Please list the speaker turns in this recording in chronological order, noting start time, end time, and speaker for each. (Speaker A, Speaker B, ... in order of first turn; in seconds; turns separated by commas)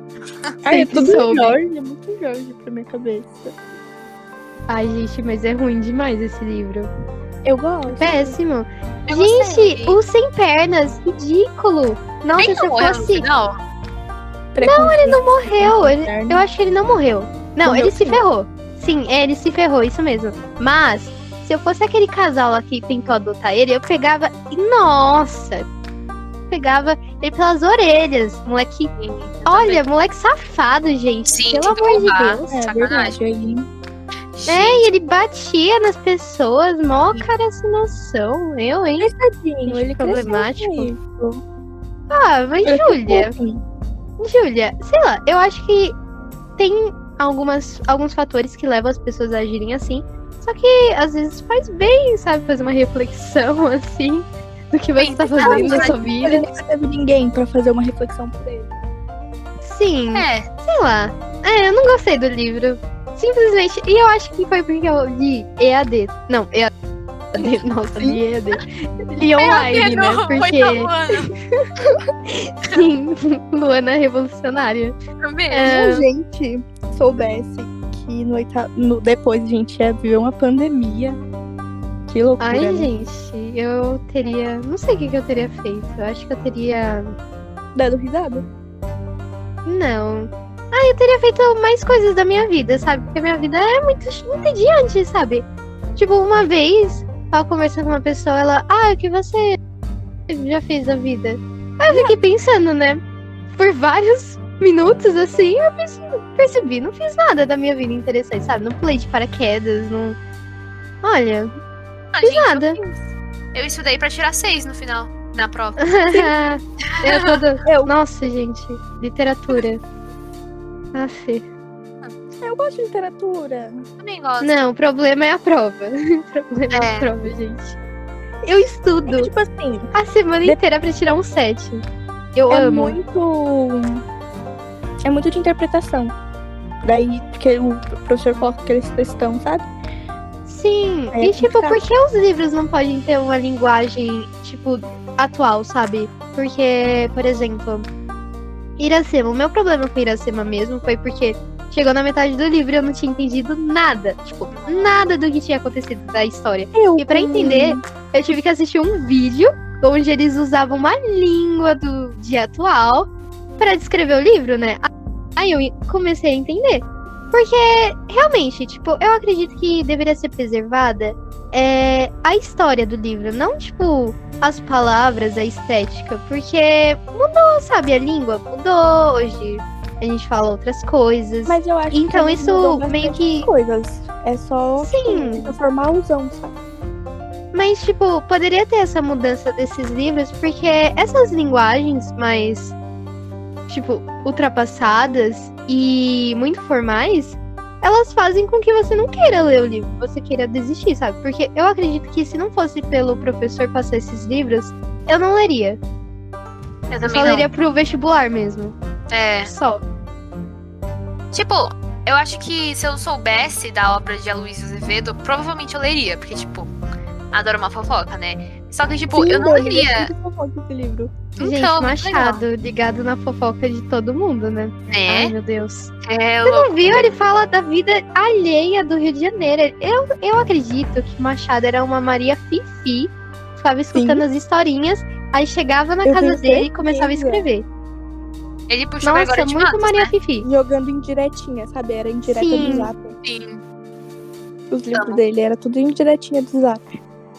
Speaker A: 0.6-3.5, Speaker B: 0.7-1.6, Speaker B: 4.7-6.9, Speaker A: 7.4-8.4, Speaker B: 7.9-13.2, Speaker C: 9.1-10.0, Speaker C: 12.4-13.6, Speaker A: 14.5-16.4, Speaker B: 14.6-25.7, Speaker A: 17.6-18.2, Speaker B: 26.5-28.9, Speaker C: 29.0-29.9, Speaker B: 29.5-32.5, Speaker C: 31.3-33.2, Speaker A: 32.3-33.7, Speaker C: 34.3-34.9, Speaker B: 34.5-39.1, Speaker A: 39.0-41.4, Speaker B: 39.6-40.9, Speaker B: 42.1-43.3, Speaker A: 42.6-43.6, Speaker B: 44.2-46.0, Speaker B: 46.6-56.4, Speaker C: 55.0-56.0, Speaker A: 55.4-58.7, Speaker B: 59.6-66.7, Speaker C: 60.1-60.5, Speaker B: 67.3-70.9, Speaker C: 69.4-71.3, Speaker B: 71.8-75.0, Speaker C: 75.2-75.7, Speaker B: 75.5-76.1, Speaker A: 75.6-81.2, Speaker A: 82.1-82.9, Speaker B: 82.4-87.2, Speaker A: 87.7-88.4, Speaker B: 89.7-95.4, Speaker B: 96.0-99.6, Speaker B: 100.3-103.0, Speaker A: 101.9-102.1, Speaker B: 103.5-110.2, Speaker B: 111.0-111.5, Speaker C: 112.1-113.0, Speaker B: 112.2-112.8, Speaker C: 113.5-116.3, Speaker B: 115.8-119.8, Speaker C: 116.8-117.4, Speaker A: 117.6-117.9, Speaker B: 120.9-121.5, Speaker A: 122.4-123.8, Speaker C: 124.0-124.6, Speaker B: 124.4-127.8, Speaker C: 126.7-127.1, Speaker B: 128.4-129.3, Speaker A: 129.1-129.9, Speaker B: 129.9-131.8, Speaker B: 132.3-133.0, Speaker A: 132.5-134.0, Speaker A: 135.0-136.1, Speaker A: 136.8-139.7, Speaker B: 140.5-147.9, Speaker A: 141.1-141.8, Speaker B: 148.8-183.5, Speaker C: 154.5-155.1, Speaker A: 156.7-157.8, Speaker A: 181.4-186.5, Speaker B: 184.8-185.6, Speaker B: 187.5-192.7, Speaker B: 193.7-205.8, Speaker C: 206.9-207.5, Speaker B: 207.1-208.8, Speaker C: 209.1-209.5, Speaker B: 209.4-209.8, Speaker C: 211.3-216.7, Speaker C: 217.3-220.1, Speaker A: 219.1-221.1, Speaker C: 221.3-222.4, Speaker B: 221.4-225.9, Speaker C: 224.9-225.3, Speaker C: 226.0-227.2, Speaker B: 226.4-237.6, Speaker A: 233.9-234.2, Speaker A: 236.0-237.4, Speaker C: 238.7-240.1, Speaker B: 239.0-240.5, Speaker A: 240.4-243.2, Speaker B: 242.3-242.9, Speaker C: 243.2-243.6, Speaker A: 244.7-246.9, Speaker C: 244.9-245.2